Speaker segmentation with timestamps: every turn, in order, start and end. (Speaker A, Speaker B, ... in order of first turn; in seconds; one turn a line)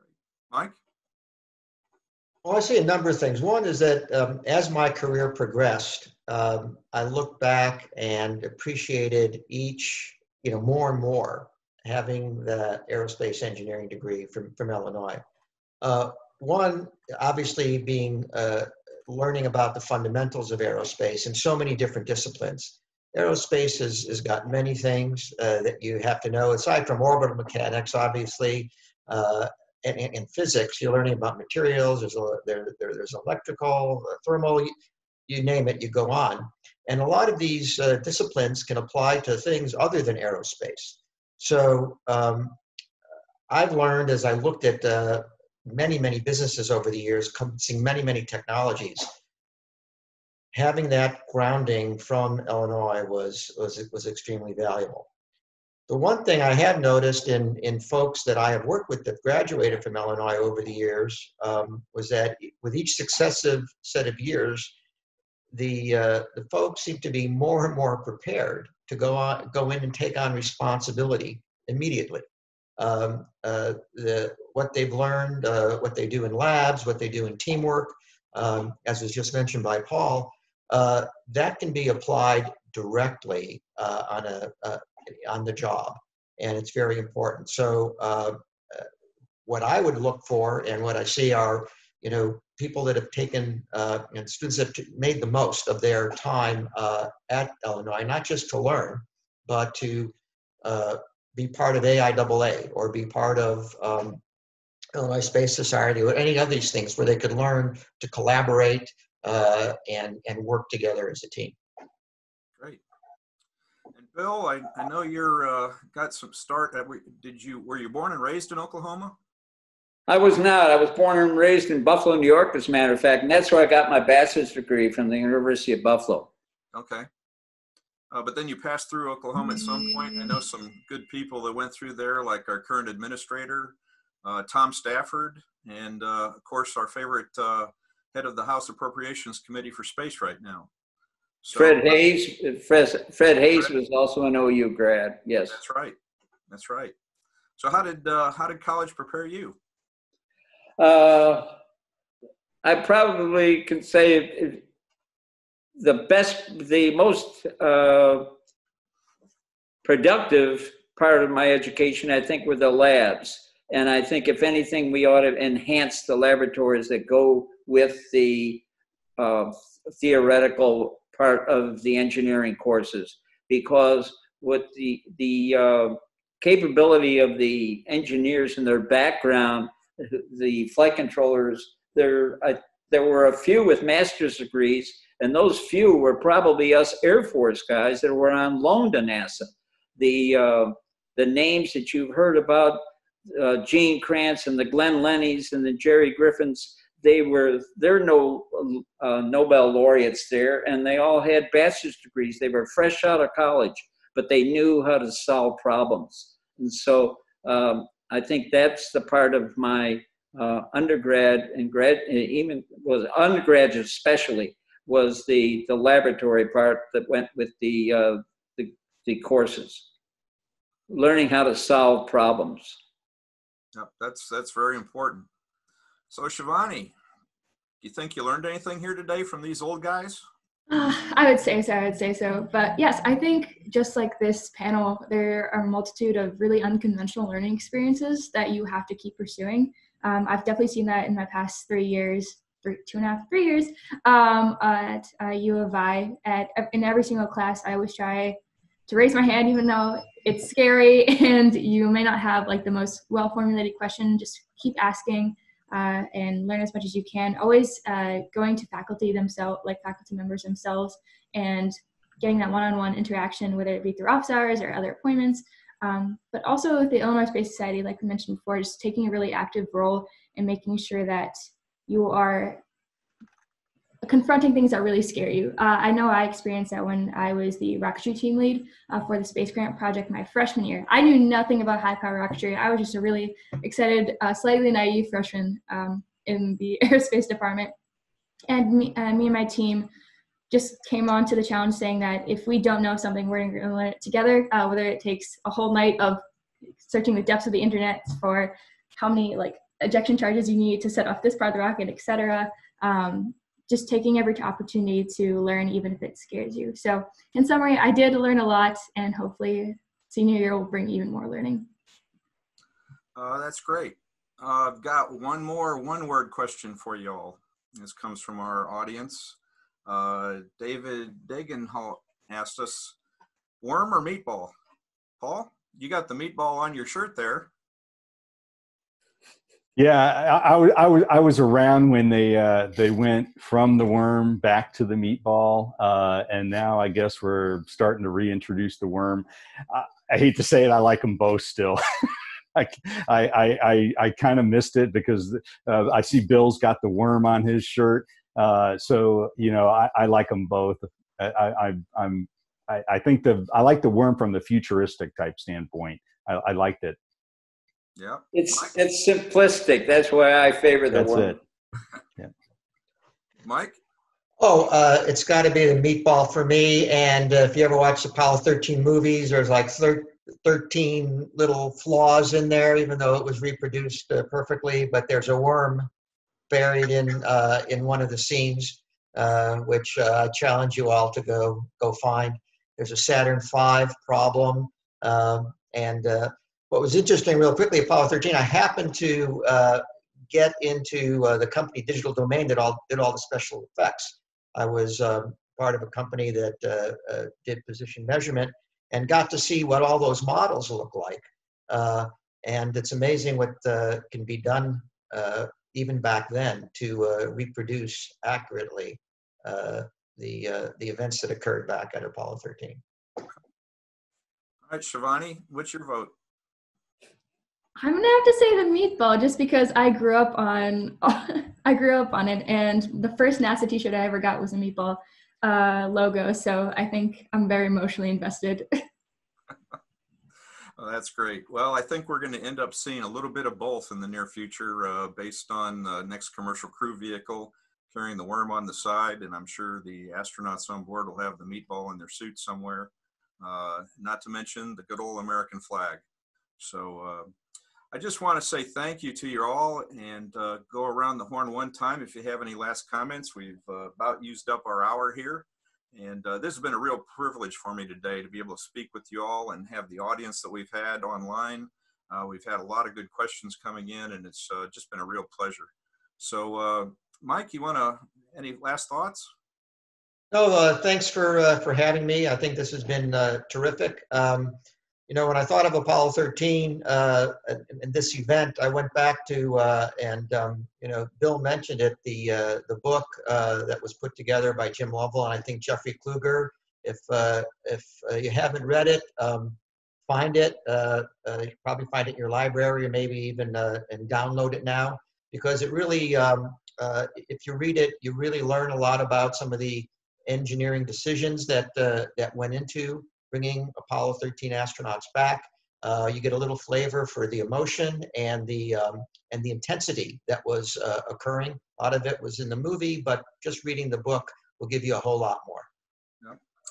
Speaker A: 0.5-0.8
Speaker B: 2.4-15.2
Speaker B: 15.8-34.7
Speaker B: 35.3-42.5
Speaker B: 43.5-49.1
Speaker B: 50.5-55.1
Speaker B: 55.9-64.7
Speaker B: 65.5-72.2
Speaker B: 72.8-88.9
Speaker B: 89.5-104.2
Speaker B: 104.9-111.6
Speaker A: 114.0-119.1
Speaker C: 120.1-126.3
Speaker A: 126.7-127.1
Speaker A: 128.1-140.7
Speaker A: 141.4-141.9
Speaker C: 141.5-145.6
Speaker A: 145.5-145.9
Speaker A: 146.5-146.9
Speaker A: 147.6-149.6
Speaker C: 150.8-151.5
Speaker C: 152.6-154.6
Speaker C: 155.8-158.3
Speaker C: 159.8-168.6
Speaker C: 169.2-219.9
Speaker C: 220.9-222.8
Speaker A: 223.7-225.3
Speaker A: 226.1-226.9
Speaker A: 227.8-230.2
Speaker D: 230.7-272.6
Speaker D: 274.0-287.7
Speaker D: 288.5-289.9
Speaker D: 290.5-296.2
Speaker D: 296.8-311.7
Speaker A: 313.1-322.9
Speaker A: 323.6-324.5
Speaker A: 325.2-327.5
Speaker E: 329.8-357.0
Speaker A: 358.0-358.7
Speaker C: 358.3-361.4
Speaker E: 360.9-361.4
Speaker A: 363.4-363.8
Speaker B: 364.4-375.9
Speaker B: 376.5-412.8
Speaker A: 414.7-416.1
Speaker D: 417.8-428.7
Speaker A: 430.8-442.9
Speaker A: 443.4-446.0
Speaker A: 446.6-447.3
Speaker A: 447.9-465.7
Speaker A: 466.2-469.3
Speaker B: 470.3-474.6
Speaker B: 475.1-515.7